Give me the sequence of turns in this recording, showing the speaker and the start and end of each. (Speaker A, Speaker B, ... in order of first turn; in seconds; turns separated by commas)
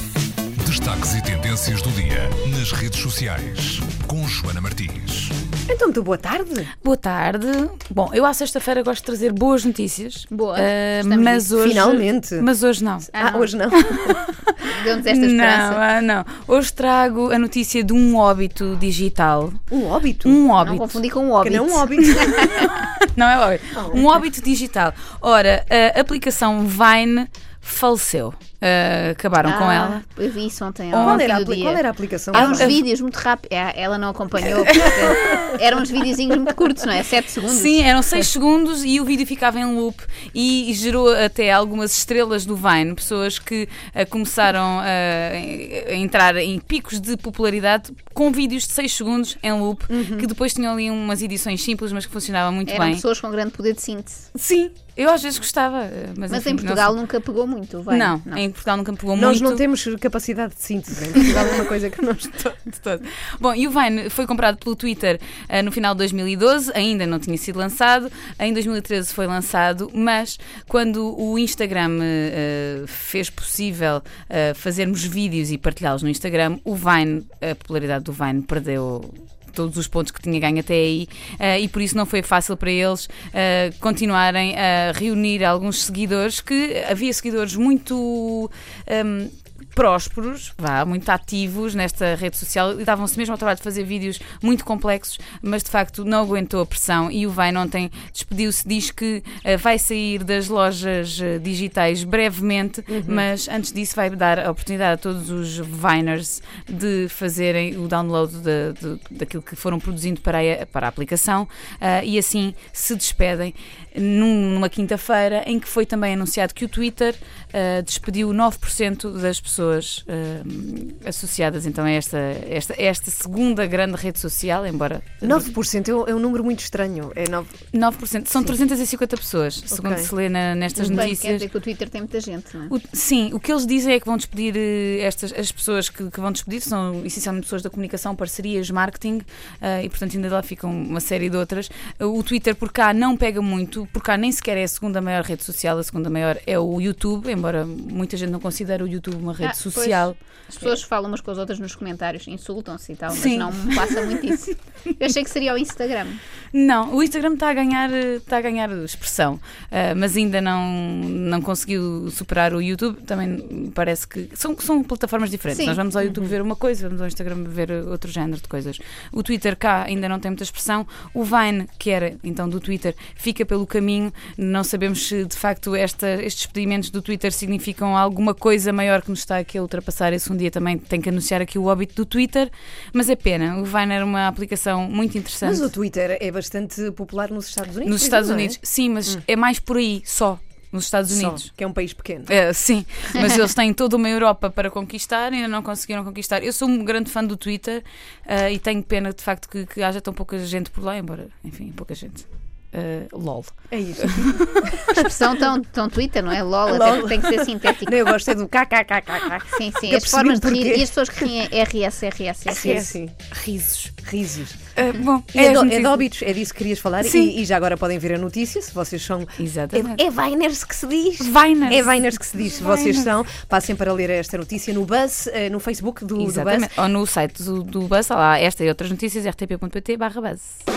Speaker A: 0.6-5.3, Speaker B: 5.7-6.7, Speaker C: 6.8-13.1, Speaker D: 10.3-11.5, Speaker B: 11.6-12.5, Speaker B: 13.1-14.2, Speaker D: 13.2-13.5, Speaker C: 13.7-19.6, Speaker D: 14.6-15.8, Speaker B: 19.7-20.4, Speaker C: 20.2-21.0, Speaker D: 20.6-22.7, Speaker B: 21.4-22.2, Speaker C: 22.0-30.0, Speaker B: 23.8-24.0, Speaker D: 29.4-37.8, Speaker C: 30.9-31.5, Speaker B: 30.9-32.8, Speaker C: 32.3-32.8, Speaker C: 34.7-35.6, Speaker C: 37.5-53.0, Speaker B: 49.9-50.3, Speaker D: 52.7-54.3, Speaker C: 54.4-57.0, Speaker D: 56.3-58.4, Speaker C: 57.9-59.6, Speaker B: 59.2-62.5, Speaker C: 62.5-125.5, Speaker B: 102.9-103.2, Speaker B: 125.2-127.6, Speaker C: 127.7-131.5, Speaker B: 129.7-130.1, Speaker B: 130.8-131.1, Speaker D: 130.8-132.7, Speaker C: 132.7-150.8, Speaker D: 149.4-156.2, Speaker C: 153.1-154.5, Speaker C: 156.5-185.7, Speaker D: 165.5-165.8, Speaker B: 185.4-189.2, Speaker C: 187.8-191.5, Speaker B: 191.1-192.3, Speaker C: 192.3-205.0, Speaker B: 203.7-205.1, Speaker D: 204.9-208.3, Speaker B: 206.7-211.2, Speaker D: 209.5-212.9, Speaker B: 212.5-213.3, Speaker C: 212.5-213.9, Speaker B: 214.0-214.6, Speaker C: 214.8-216.1, Speaker B: 215.3-226.7, Speaker C: 217.0-217.3, Speaker C: 219.4-220.0, Speaker C: 221.2-223.1, Speaker C: 226.2-230.6